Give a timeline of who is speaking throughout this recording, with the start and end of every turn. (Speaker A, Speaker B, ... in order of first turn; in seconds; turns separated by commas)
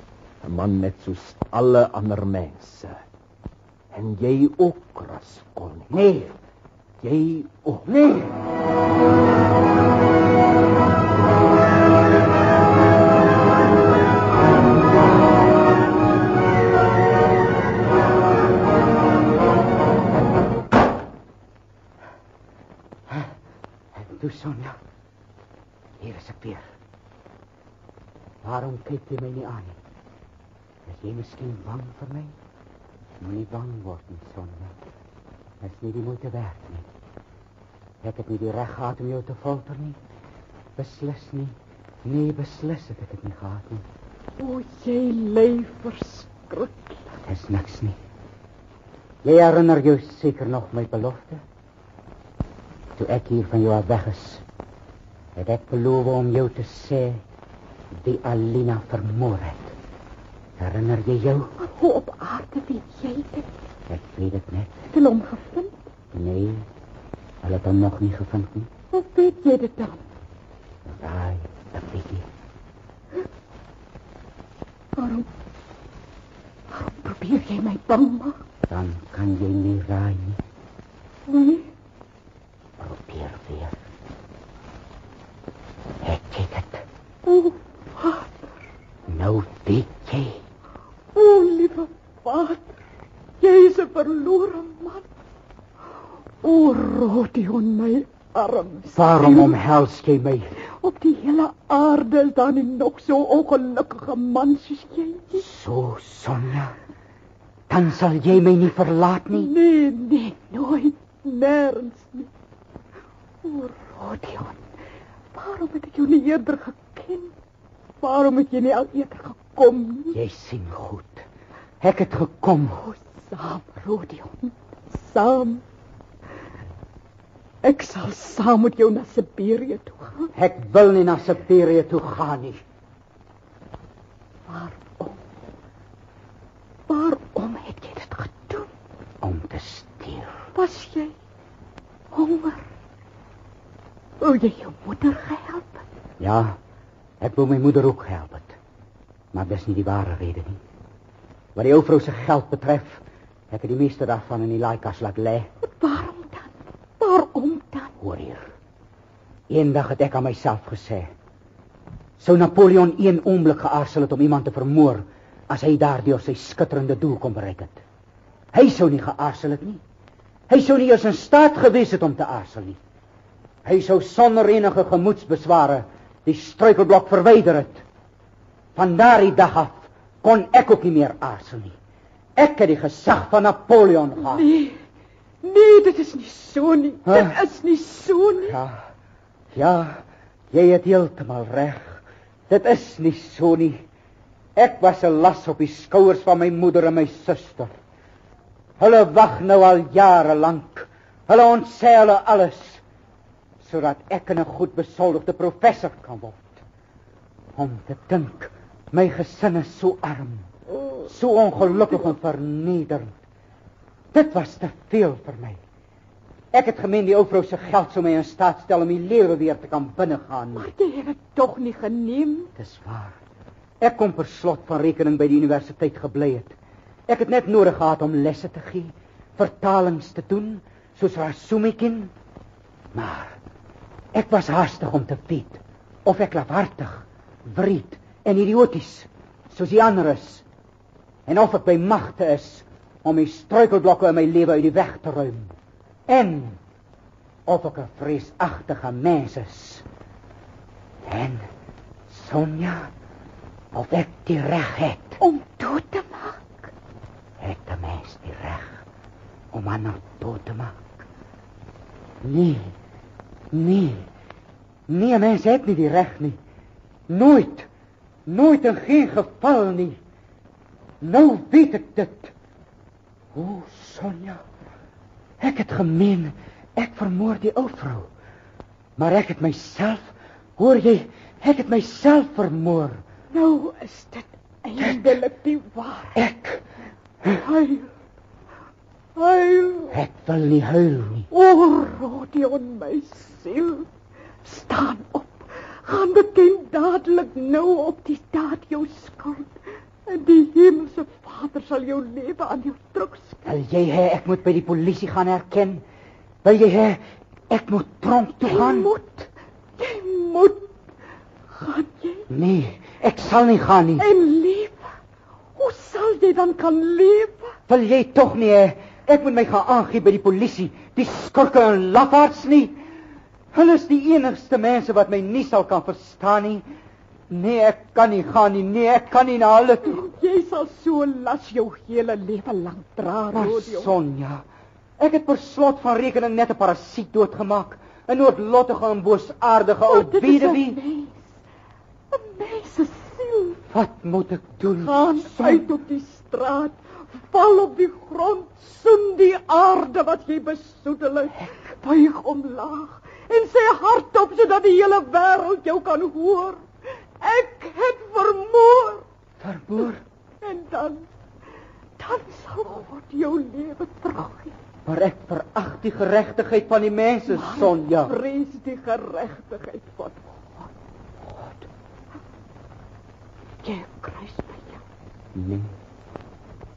Speaker A: 0.4-3.0, Speaker A: 3.9-6.1, Speaker B: 5.9-6.3, Speaker A: 7.0-8.3, Speaker B: 23.9-24.8, Speaker B: 26.0-26.7, Speaker B: 28.4-29.8, Speaker B: 30.9-32.3, Speaker B: 33.2-34.8, Speaker B: 35.6-36.9, Speaker B: 38.0-40.0, Speaker B: 40.8-43.9, Speaker C: 44.4-47.0, Speaker B: 47.3-48.0, Speaker B: 49.2-51.4, Speaker B: 53.0-54.4, Speaker B: 55.4-57.2, Speaker B: 57.9-59.8, Speaker B: 60.6-61.5, Speaker C: 61.6-63.5, Speaker B: 63.9-64.7, Speaker C: 64.9-65.7, Speaker B: 66.1-66.7, Speaker B: 67.4-68.7, Speaker C: 68.9-70.0, Speaker B: 70.9-72.3, Speaker C: 75.0-75.3, Speaker C: 76.7-78.4, Speaker B: 78.7-80.4, Speaker C: 81.3-81.7, Speaker B: 82.8-83.8, Speaker B: 86.0-86.8, Speaker C: 87.3-88.4, Speaker B: 89.1-90.4, Speaker C: 91.2-92.7, Speaker C: 93.4-95.0, Speaker C: 96.4-99.6, Speaker B: 99.0-100.5, Speaker C: 100.8-105.4, Speaker B: 105.4-106.8, Speaker B: 107.7-109.5, Speaker C: 109.3-112.3, Speaker C: 113.4-114.6, Speaker C: 115.3-117.3, Speaker C: 118.0-120.2, Speaker B: 120.1-121.2, Speaker B: 121.8-122.8, Speaker C: 122.8-125.6, Speaker C: 127.6-130.3, Speaker B: 130.3-132.6, Speaker C: 134.5-135.2, Speaker C: 136.9-138.7, Speaker B: 139.2-140.4, Speaker C: 140.6-141.1, Speaker C: 142.1-142.7, Speaker C: 144.2-145.8, Speaker B: 146.2-146.6, Speaker B: 147.2-148.6, Speaker B: 149.3-150.6, Speaker B: 151.6-155.5, Speaker C: 155.6-157.9, Speaker B: 158.0-158.5, Speaker B: 159.5-161.1, Speaker B: 162.2-167.8, Speaker B: 168.5-169.8, Speaker B: 170.5-172.8, Speaker B: 173.7-177.8, Speaker B: 178.8-181.8, Speaker B: 182.4-184.5, Speaker C: 184.2-184.8, Speaker C: 185.4-188.6, Speaker B: 187.1-187.4, Speaker B: 188.4-188.9, Speaker B: 189.5-193.8, Speaker B: 194.6-197.7, Speaker B: 198.8-202.8, Speaker B: 203.6-206.6, Speaker B: 207.6-210.5, Speaker B: 211.1-213.2, Speaker B: 214.1-215.6, Speaker B: 216.5-220.7, Speaker C: 220.6-222.5, Speaker B: 222.6-223.2, Speaker B: 223.8-226.6, Speaker B: 227.1-232.1, Speaker B: 232.9-233.4, Speaker B: 234.1-240.4, Speaker B: 241.3-245.5, Speaker B: 246.1-246.6, Speaker B: 247.5-249.8, Speaker B: 251.1-251.5, Speaker B: 252.1-252.9, Speaker B: 253.7-255.2, Speaker C: 255.2-256.7, Speaker B: 257.4-258.8, Speaker B: 259.5-260.9, Speaker B: 262.2-262.8, Speaker B: 263.5-264.1, Speaker B: 264.9-266.4, Speaker B: 267.1-267.7, Speaker B: 268.3-270.0, Speaker B: 271.0-272.3, Speaker B: 273.3-274.4, Speaker B: 275.4-278.1, Speaker B: 279.0-283.0, Speaker C: 283.3-286.2, Speaker B: 284.8-285.2, Speaker B: 286.2-286.6, Speaker C: 287.4-287.9, Speaker C: 289.2-289.9, Speaker B: 289.9-291.3, Speaker C: 291.3-293.9, Speaker C: 294.4-299.5, Speaker C: 300.1-303.4, Speaker B: 303.4-305.8, Speaker B: 306.4-308.9, Speaker C: 308.4-310.7, Speaker C: 311.5-312.3, Speaker B: 312.3-314.1, Speaker C: 314.0-314.9, Speaker C: 315.6-317.5, Speaker B: 317.7-322.8, Speaker B: 323.5-326.6, Speaker B: 327.3-330.1, Speaker C: 329.9-333.9, Speaker B: 333.3-334.4, Speaker B: 335.0-340.8, Speaker C: 339.9-341.2, Speaker C: 342.1-343.6, Speaker B: 343.7-345.7, Speaker C: 344.8-356.6, Speaker C: 357.2-359.1, Speaker B: 359.4-360.0, Speaker C: 360.4-361.1, Speaker C: 362.0-364.5, Speaker B: 364.9-368.2, Speaker C: 367.3-370.7, Speaker B: 371.2-371.7, Speaker C: 373.6-374.8, Speaker B: 375.4-375.7